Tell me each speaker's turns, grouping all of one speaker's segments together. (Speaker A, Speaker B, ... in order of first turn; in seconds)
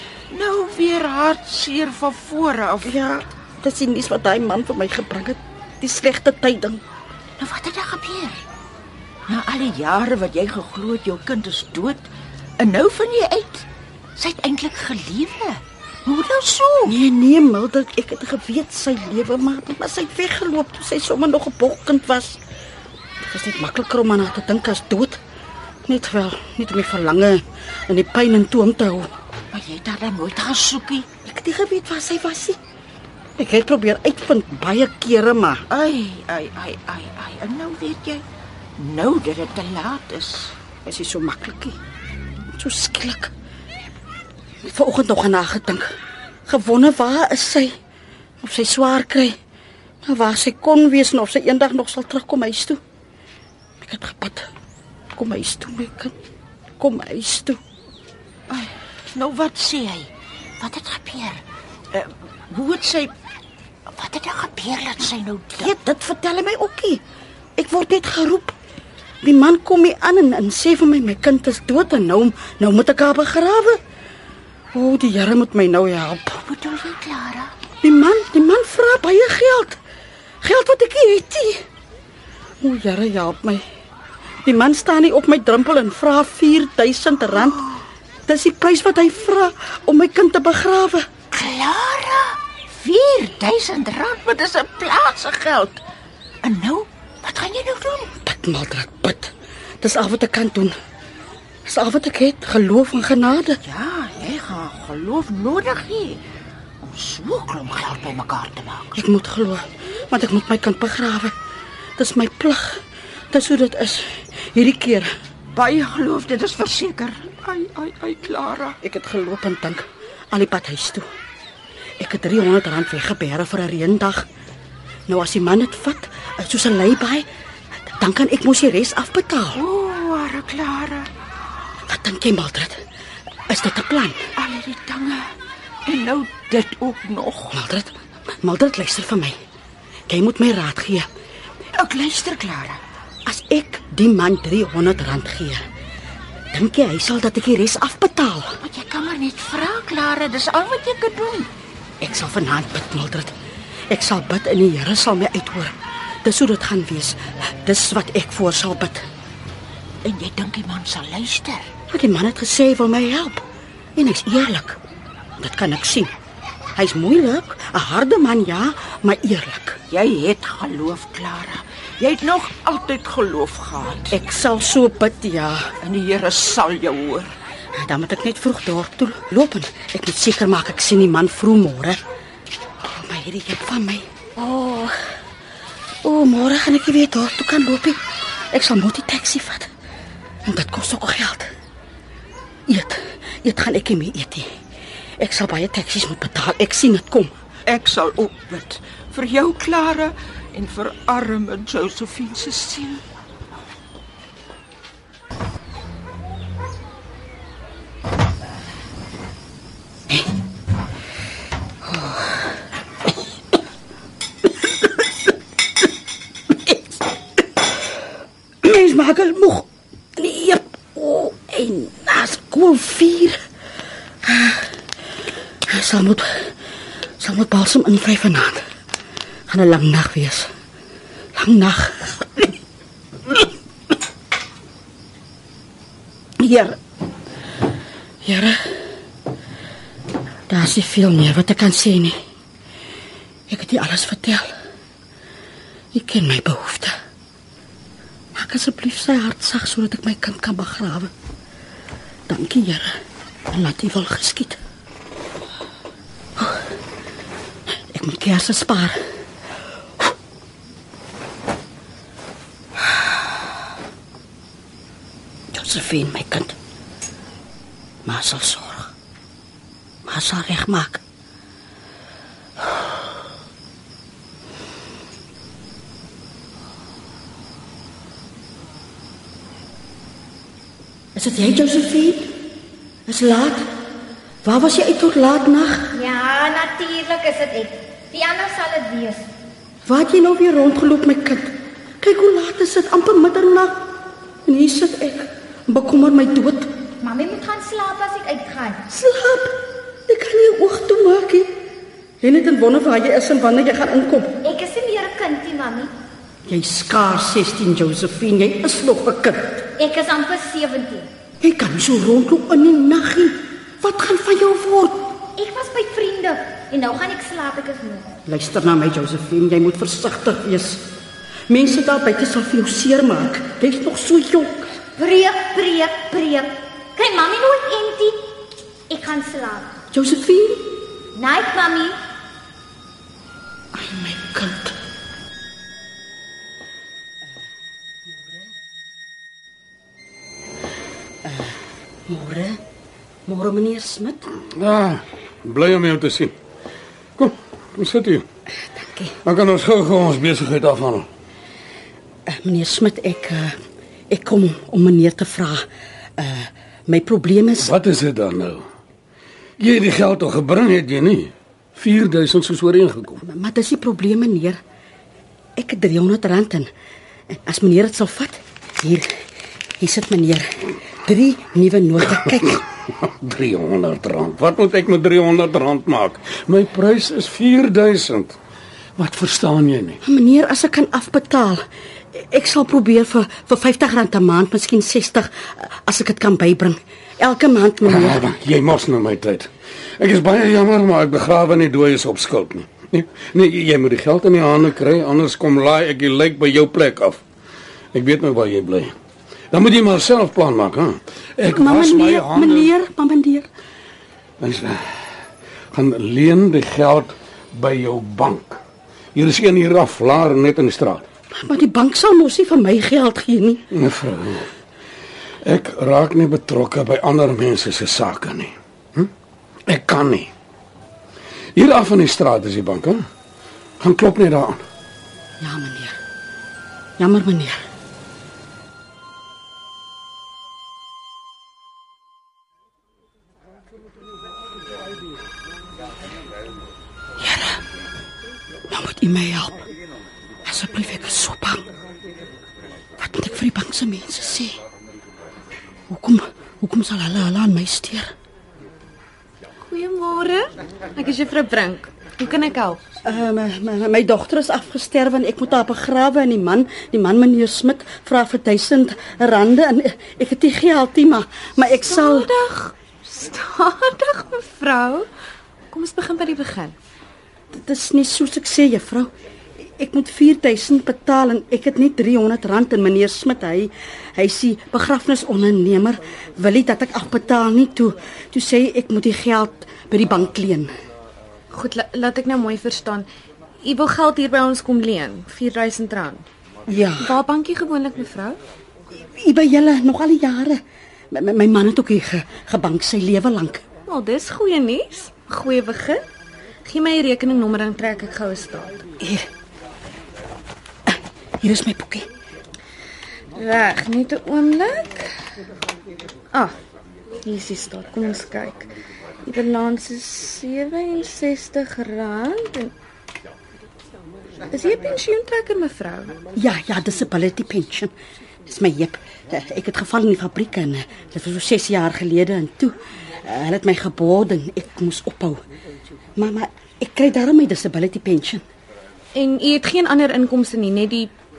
Speaker A: 0.3-3.1, 7.4-8.4, 9.3-12.1, 12.6-13.7, 14.2-16.9, 29.5-31.1, 35.7-38.2, 38.8-40.5, 58.5-61.4, 61.9-63.1, 63.9-65.7, 76.4-77.5, 87.4-87.7, 91.3-95.8, 96.4-98.1, 103.6-106.2, 106.8-109.0, 115.5-118.8, 129.5-131.1, 134.4-135.3, 135.9-137.6, 141.7-142.8, 148.6-151.5, 160.0-161.7, 169.9-174.2, 175.8-177.3, 197.7-203.0
Speaker B: 2.8-6.8, 16.9-22.4, 23.2-25.2, 25.9-29.1, 31.2-32.6, 33.4-35.6, 40.9-41.8, 42.5-43.3, 44.6-45.9, 46.5-47.8, 48.4-49.4, 50.0-52.8, 53.8-54.5, 55.1-56.1, 56.8-57.6, 65.6-67.0, 67.6-68.5, 69.2-73.8, 74.7-76.4, 77.8-79.8, 80.4-81.7, 82.6-83.6, 84.4-87.6, 88.3-91.1, 98.2-100.7, 101.7-103.6, 109.0-111.3, 112.0-115.2, 118.8-121.0, 122.0-124.3, 125.1-127.3, 127.9-129.6, 131.9-132.8, 133.5-134.2, 137.5-139.4, 140.1-141.1, 143.3-145.7, 146.5-148.6, 152.0-153.3, 153.9-159.1, 161.9-164.8, 165.4-166.1, 166.8-169.8, 174.1-175.7, 177.7-182.0, 182.8-184.9, 186.0-188.0, 188.5-189.7, 190.4-191.5, 192.7-194.5, 195.2-197.4, 218.6-223.4, 224.2-224.8, 225.7-226.6, 227.2-228.7, 229.5-230.5, 231.3-232.6, 236.4-236.8, 238.2-238.9, 240.5-242.2, 243.5-244.5, 245.9-246.9, 248.3-251.1, 252.3-253.0, 253.5-254.6, 256.4-256.8, 257.7-259.0, 265.5-266.6, 268.1-268.9, 270.1-271.0, 281.1-282.4, 283.1-283.7, 284.4-285.9, 289.9-293.9, 294.5-296.7, 298.9-301.5, 302.2-304.4, 306.5-309.6, 311.4-315.1, 318.3-320.9, 321.5-324.7, 329.9-330.7, 333.7-334.8, 341.2-342.6, 343.3-344.3, 348.8-349.1, 352.3-353.6, 354.1-357.8, 363.2-364.6, 365.6-366.7, 367.3-369.2, 369.8-372.6, 380.0-388.2, 401.5-403.5, 411.3-413.6, 425.4-426.0, 427.0-427.6, 437.2-437.6, 438.7-439.6, 440.4-441.6, 443.0-444.6, 445.9-448.1, 453.0-462.3, 467.5-480.7, 486.7-487.2, 488.9-493.6, 499.0-499.3, 500.9-502.1, 516.4-517.9, 518.5-525.4, 526.2-528.5
Speaker C: 285.9-289.3, 297.0-298.8, 304.4-305.9, 309.8-311.1, 315.4-318.1, 325.0-328.2, 328.9-329.7, 331.1-331.9
Speaker D: 344.5-346.3, 347.2-348.3, 349.2-351.1, 357.6-358.7, 359.6-363.2, 373.0-378.4, 379.0-380.0, 387.9-397.2, 397.9-398.9, 399.5-402.7, 404.4-408.6, 409.1-411.0, 413.7-414.5, 415.4-419.1, 419.7-420.3, 421.6-423.0, 423.8-424.6
Speaker E: 449.6-452.8, 461.9-465.1, 465.7-466.8, 481.5-483.1, 483.6-486.2, 487.0-488.4, 493.9-496.0, 496.6-498.8, 503.4-505.1, 507.2-508.7, 509.2-512.7, 514.5-516.1, 529.1-531.1